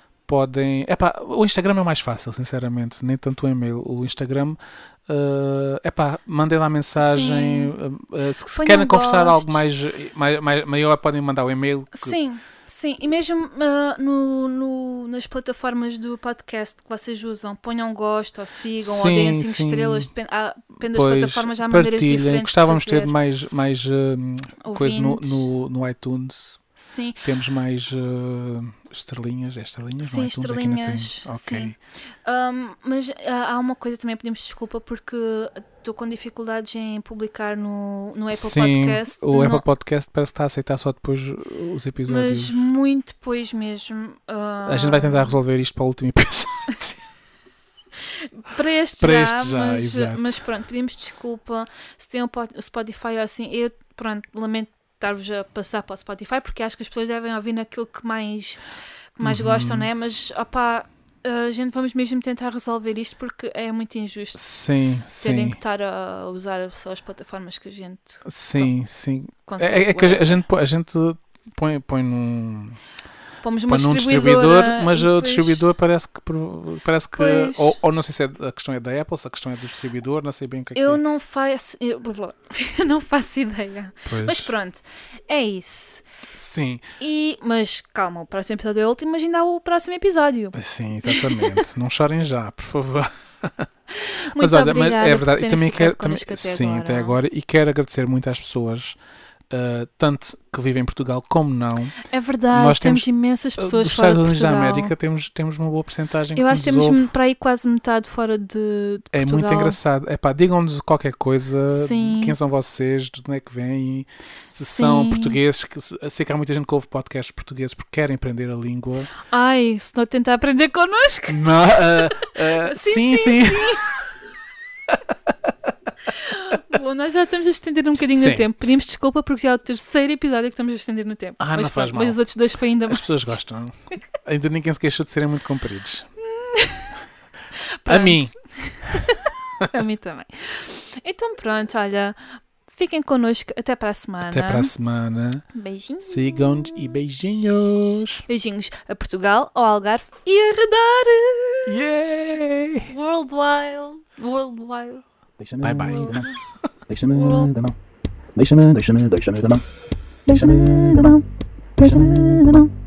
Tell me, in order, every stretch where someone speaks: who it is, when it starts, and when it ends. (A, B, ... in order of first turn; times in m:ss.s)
0:00.3-0:12.2 A
0:07.0-0:07.8 B
0:08.5-0:09.6 B
0:11.9-0:23.1 B
0:18.8-0:20.1 A
0:20.8-0:26.6 A
0:24.6-0:25.5 B
0:26.8-0:27.2 B
0:27.2-0:31.8 A
0:30.0-0:39.6 B
0:38.3-0:42.6 A
0:42.0-0:45.4 B
0:44.7-0:47.0 A
0:48.0-0:58.6 B
0:49.0-0:50.4 A
0:59.2-1:04.4 B
0:59.2-0:59.9 A
1:04.4-1:05.6 A
1:05.2-1:08.7 B
1:08.2-1:12.8 A
1:09.5-1:10.4 B
1:13.4-1:15.6 B
1:13.7-1:21.0 A
1:17.2-1:17.8 B
1:20.8-1:26.0 B
1:24.1-1:24.5 A
1:26.4-1:26.9 A
1:27.0-1:31.6 B
1:30.6-1:33.7 A
1:34.0-1:37.2 B
1:34.4-1:39.0 A
1:39.5-1:42.0 A
1:42.0-1:44.9 B
1:42.5-1:47.0 A
1:46.4-1:49.8 B
1:49.1-1:59.1 A
1:51.7-1:52.4 B
1:54.6-1:55.4 B
1:59.3-2:03.9 B
2:01.3-2:03.9 A
2:04.9-2:05.5 A
2:06.0-2:13.3 B
2:08.1-2:08.5 A
2:11.4-2:12.2 A
2:12.9-2:16.1 A
2:16.2-2:17.0 B
2:17.6-2:22.2 B
2:17.9-2:18.4 A
2:22.7-2:24.7 B
2:24.2-2:25.4 A
2:25.5-2:26.8 B
2:26.0-2:28.3 A
2:28.3-2:32.3 B
2:31.7-2:32.9 A
2:32.9-2:35.0 B
2:35.4-2:36.3 C
2:35.6-2:36.3 A
2:35.8-2:36.2 B
2:36.9-2:37.8 C
2:37.1-2:37.5 B
2:38.4-2:39.6 C
2:40.3-2:41.2 B
2:40.3-2:41.2 C
2:41.8-2:42.7 B
2:41.8-2:42.7 C